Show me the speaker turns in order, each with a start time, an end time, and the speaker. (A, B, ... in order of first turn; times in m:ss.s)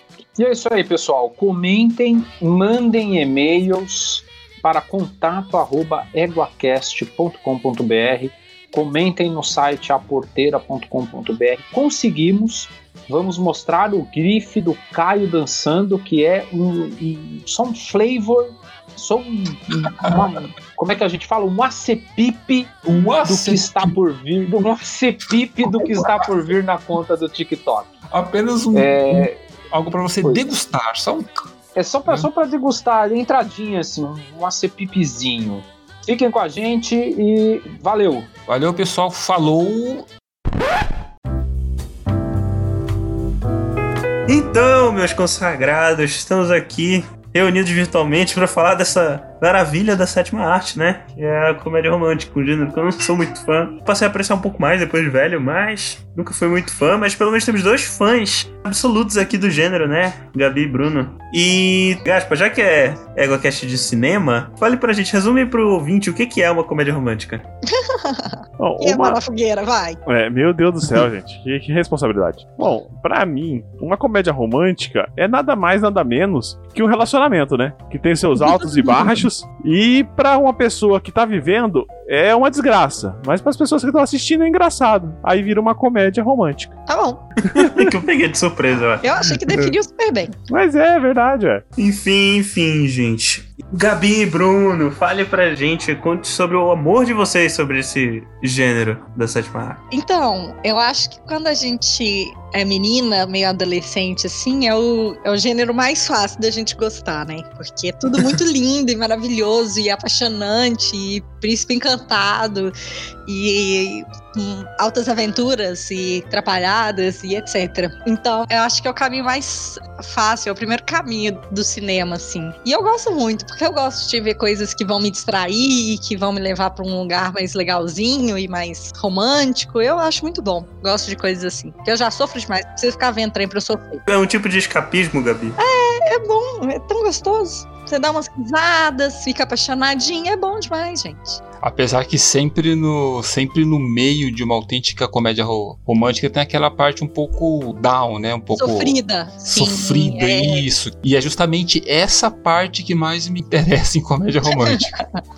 0:00.4-0:22.7 A
0:22.8-0:24.0 B
0:23.2-0:27.9 A
0:25.6-0:26.1 B
0:28.1-0:31.5 B
0:28.7-0:29.4 A
0:31.8-0:38.3 A
0:38.5-0:40.1 B
0:44.3-1:07.5 C
1:07.7-1:10.0 D
1:08.6-1:09.2 E
1:10.1-1:26.8 E
1:18.4-1:19.2 D
1:26.9-1:27.2 D
1:27.5-1:27.9 E
1:27.5-1:29.1 C
1:29.0-1:30.3 D
1:30.5-1:31.6 E
1:31.8-1:39.8 C
1:39.9-1:52.7 D
1:53.3-2:14.0 D
2:14.1-2:15.6 C
2:15.6-2:21.4 D
2:21.6-2:35.0 B
2:28.6-2:30.6 D
2:34.6-2:35.0 D